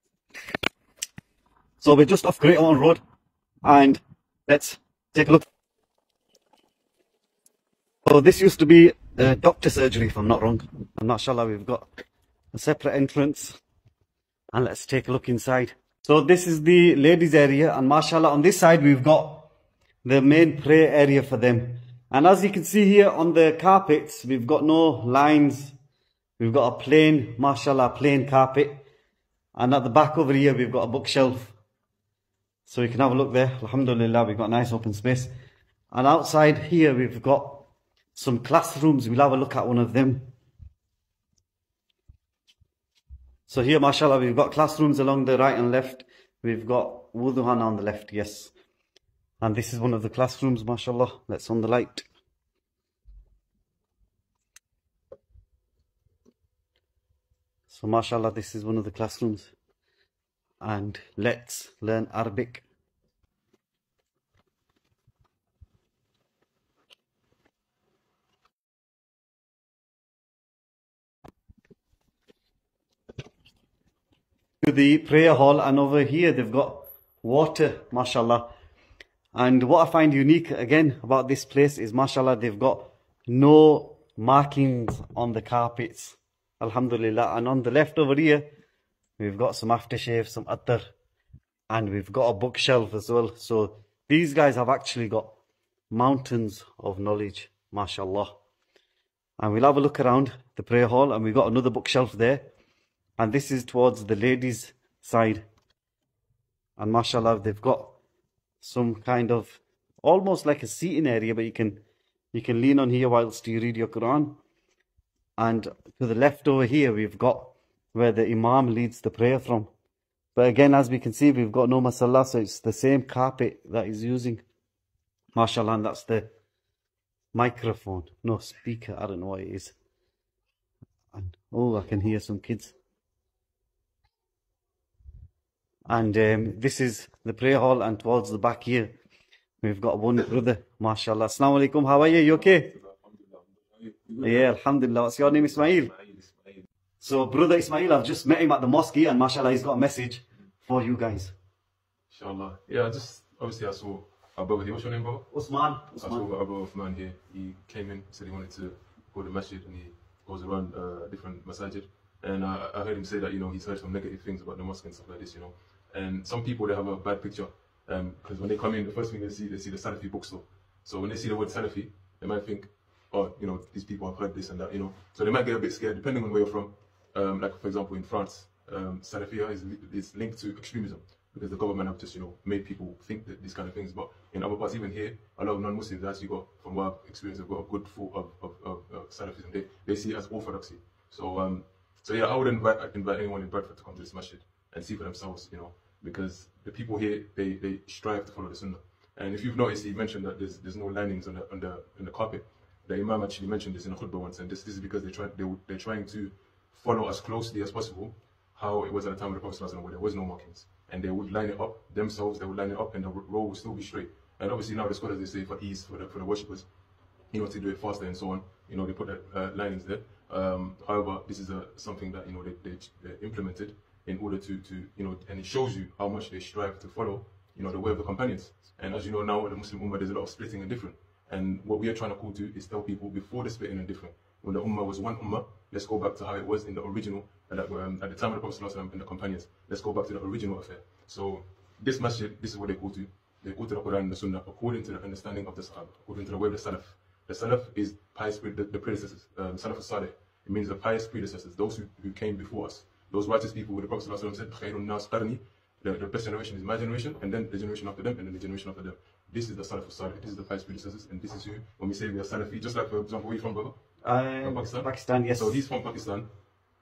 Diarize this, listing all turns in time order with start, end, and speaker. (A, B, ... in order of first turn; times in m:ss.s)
0:01.8-0:03.0 A
0:03.6-0:05.4 A
0:08.0-0:11.9 A
0:12.5-0:13.6 A
0:14.5-0:19.5 A
0:20.0-0:25.8 A
0:26.4-0:28.8 A
0:29.6-0:31.6 A
0:32.7-0:35.3 A
0:35.9-0:40.3 A
0:43.5-0:48.5 A
0:49.4-0:52.1 A
0:57.7-0:59.5 A
1:00.6-1:02.6 A
1:14.6-1:18.5 A
1:19.3-1:28.5 A
1:29.2-1:30.9 A
1:31.7-1:35.4 A
1:35.9-1:38.4 A
1:39.4-1:42.5 A
1:43.2-1:45.4 A
1:46.8-1:48.0 A
1:48.6-1:54.4 A
1:55.4-1:59.7 A
2:00.4-2:04.4 A
2:05.4-2:06.3 A
2:07.3-2:09.8 A
2:11.1-2:12.8 A
2:15.9-2:18.9 A
2:19.6-2:22.8 A
2:22.3-2:24.5 B
2:24.2-2:25.9 A
2:25.3-2:26.7 B
2:27.0-2:31.4 A
2:32.1-2:35.3 B
2:35.3-2:36.3 A
2:35.9-3:36.7 B
3:37.3-4:23.8 B
4:24.0-4:25.6 A
4:24.4-4:26.3 B